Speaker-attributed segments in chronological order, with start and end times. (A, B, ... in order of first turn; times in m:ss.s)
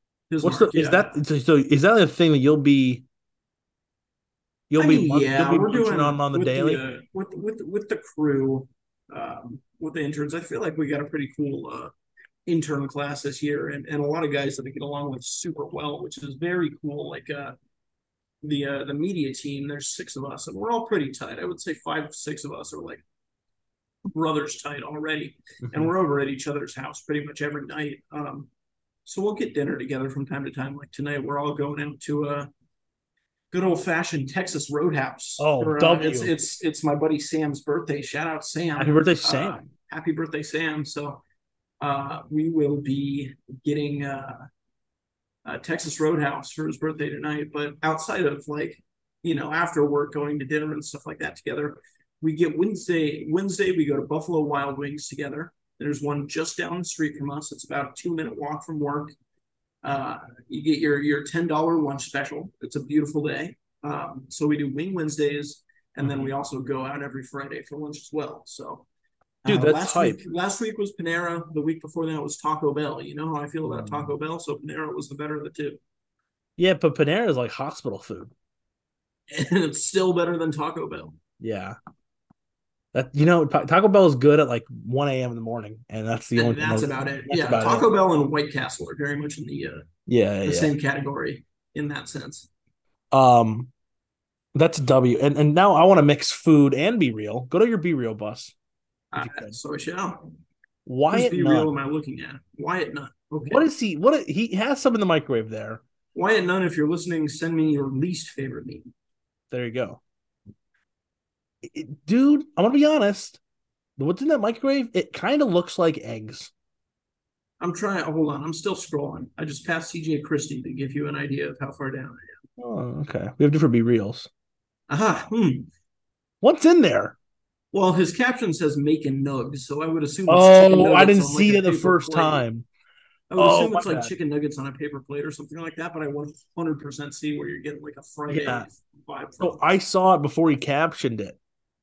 0:00.3-0:01.2 A
0:00.4-0:03.0 B
0:04.7-0:06.8 B
0:04.8-0:11.9 A
0:12.5-0:17.6 A
0:18.4-0:23.0 A
0:24.1-0:28.5 A
0:25.6-0:25.9 B
0:29.0-0:32.5 A
0:33.5-0:41.2 A
0:35.4-0:36.3 B
0:38.8-0:39.7 B
0:41.8-0:44.5 A
0:45.4-0:59.1 A
0:59.8-1:08.9 A
1:06.0-1:06.3 B
1:09.4-1:15.8 A
1:09.5-1:10.2 B
1:13.7-1:14.1 B
1:16.6-1:18.3 B
1:19.3-1:21.2 A
1:21.4-1:21.8 B
1:22.9-1:27.9 B
1:26.4-1:29.8 A
1:30.1-1:30.7 B
1:30.4-1:32.5 A
1:33.1-1:33.7 B
1:34.6-1:38.5 B
1:39.1-1:40.3 A
1:39.2-1:39.6 B
1:40.9-1:41.7 B
1:41.1-1:43.6 A
1:43.5-1:45.8 B
1:46.1-1:48.9 A
1:49.5-1:50.0 B
1:51.6-1:53.4 B
1:54.0-1:56.5 B
1:57.6-2:02.4 A
2:02.6-2:04.3 B
2:04.9-2:05.7 A
2:06.4-2:07.2 B
2:07.7-2:12.4 A
2:10.3-2:12.7 B
2:13.3-2:19.6 A
2:13.4-2:14.1 B
2:18.3-2:18.7 B
2:19.4-2:21.4 B